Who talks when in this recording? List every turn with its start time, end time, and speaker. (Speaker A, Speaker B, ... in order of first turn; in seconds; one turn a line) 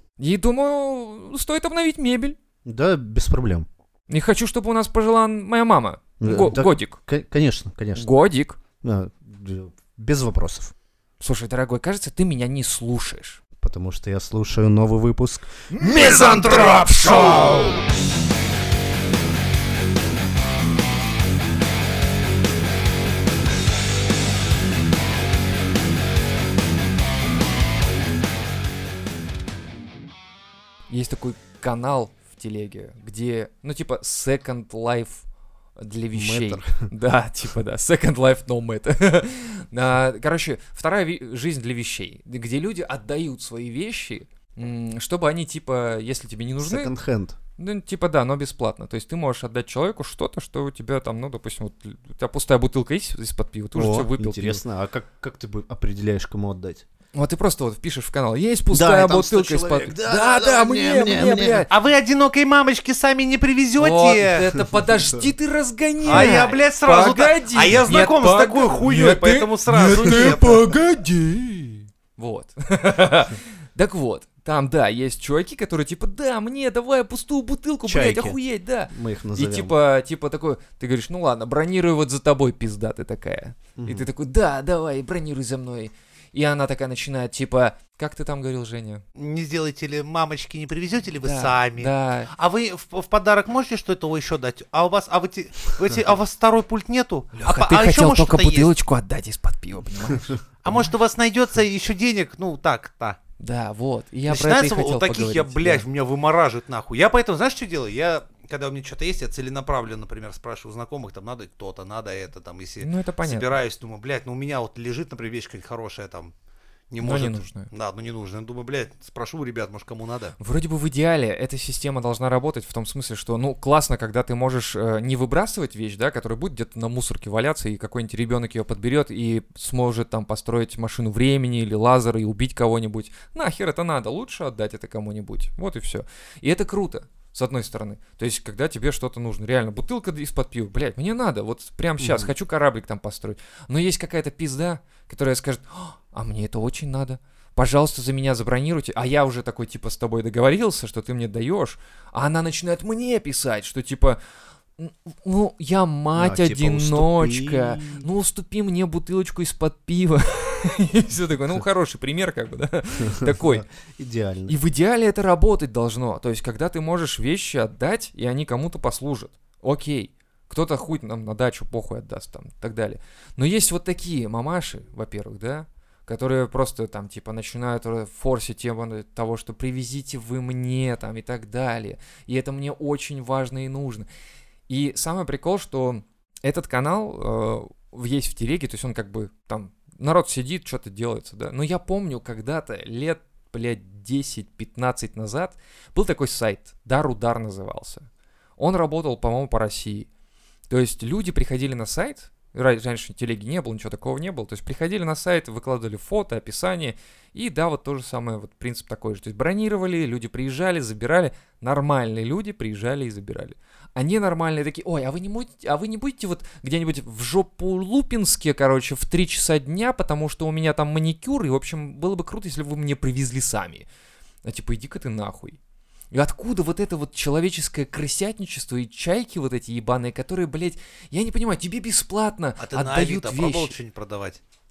Speaker A: 0.2-2.4
Speaker B: 2.6-3.7
Speaker A: 4.1-7.0
Speaker B: 6.2-8.1
Speaker A: 7.9-8.6
Speaker B: 8.8-10.7
Speaker A: 11.2-13.4
Speaker B: 13.6-15.6
Speaker A: 15.7-17.8
Speaker C: 15.8-17.8
Speaker A: 30.9-35.2
Speaker A: 35.8-46.9
Speaker B: 36.1-36.9
Speaker B: 46.6-47.4
Speaker A: 47.6-54.6
Speaker B: 53.7-56.8
Speaker A: 57.1-61.7
Speaker B: 58.7-61.6
Speaker C: 61.7-64.5
Speaker A: 63.8-89.0
Speaker B: 64.8-65.2
Speaker C: 66.0-70.7
Speaker B: 66.0-66.4
Speaker B: 77.8-79.7
Speaker B: 83.8-84.1
Speaker C: 89.2-98.7
Speaker A: 91.2-92.3
Speaker A: 97.3-100.8
Speaker C: 100.6-103.2
Speaker A: 103.4-105.8
Speaker C: 104.3-116.3
Speaker A: 112.8-113.5
Speaker C: 116.9-120.3
Speaker A: 117.0-117.7
Speaker A: 120.4-154.2
Speaker B: 142.0-142.3
Speaker A: 154.8-163.6
Speaker B: 156.1-158.0
Speaker B: 163.1-164.5
Speaker A: 164.5-184.1
Speaker A: 184.7-198.1
Speaker A: 198.6-200.1
Speaker A: 200.7-223.8
Speaker A: 224.4-225.6
Speaker A: 226.1-233.7
Speaker C: 232.6-234.4